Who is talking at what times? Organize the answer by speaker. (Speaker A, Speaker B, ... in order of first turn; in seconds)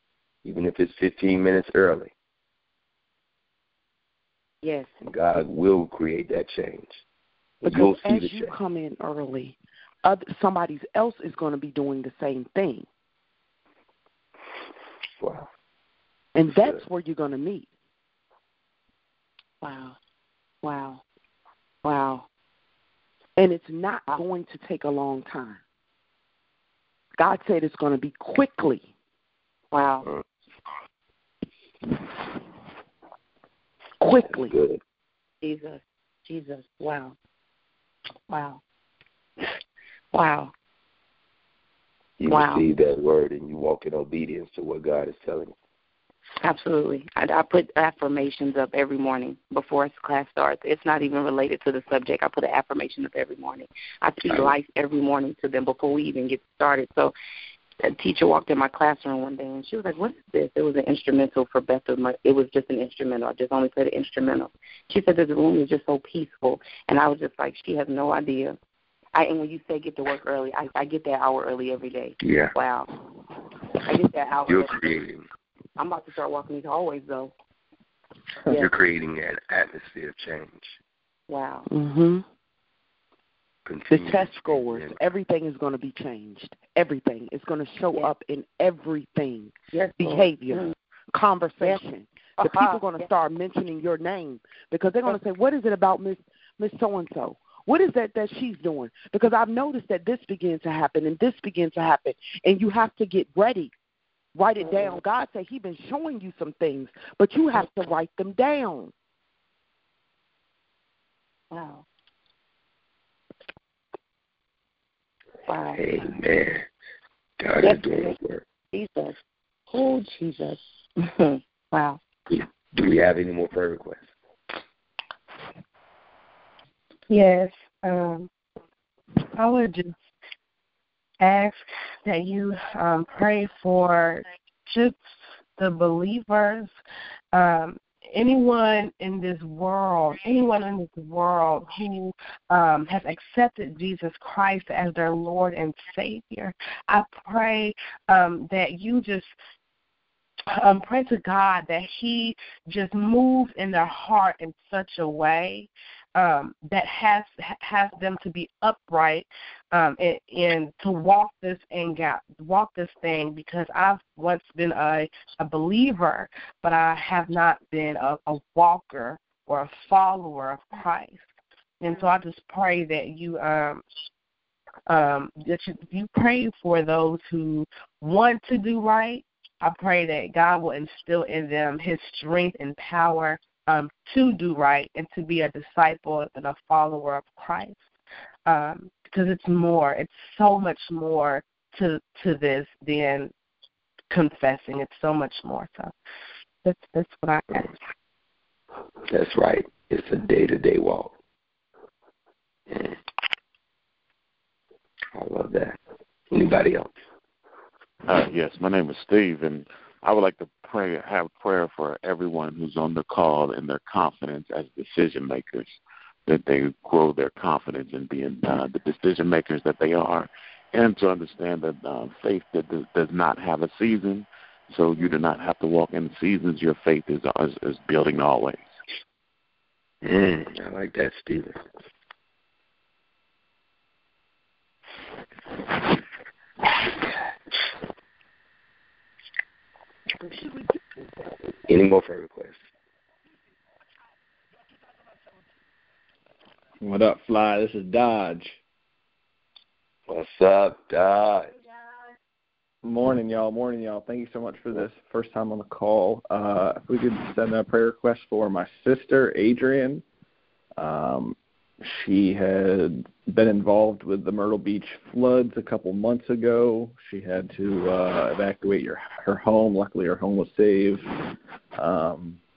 Speaker A: 0.5-2.1, 5.0-7.0, 7.6-8.5, 15.2-15.5, 16.5-16.8, 34.3-34.8, 42.2-45.5, 54.3-54.5, 72.2-72.5, 74.5-75.3, 78.5-80.8, 83.7-85.0, 115.8-116.7, 117.4-118.4, 122.3-124.1, 199.1-201.1, 202.7-203.0, 205.2-205.8, 206.3-206.9, 230.0-231.6, 241.6-242.6, 250.1-251.5
Speaker B: 4.6-4.9, 19.6-20.0, 20.6-21.0, 21.8-22.3, 29.7-30.1, 35.4-37.2, 38.3-38.6, 40.1-40.5, 42.3-42.6, 46.4-57.1, 57.8-68.6, 69.1-72.9, 73.8-74.9, 75.8-77.3, 81.3-81.7, 89.7-90.8, 92.4-93.1, 104.6-105.0, 111.5-111.8, 115.5-116.1, 117.6-118.2, 118.7-119.2, 119.7-122.0
Speaker C: 7.6-12.9, 16.4-17.7, 23.4-25.6, 27.2-28.9, 34.0-34.5, 81.7-82.2, 83.9-103.7, 104.3-108.9
Speaker D: 127.1-128.3, 129.4-130.0, 131.2-135.0, 135.6-136.7, 137.3-149.3, 150.5-171.3, 171.8-173.8, 174.9-187.8, 188.5-193.3, 194.1-195.9, 196.6-197.7
Speaker E: 208.1-228.7
Speaker F: 246.8-248.6, 252.8-260.0, 260.8-271.2, 271.8-272.4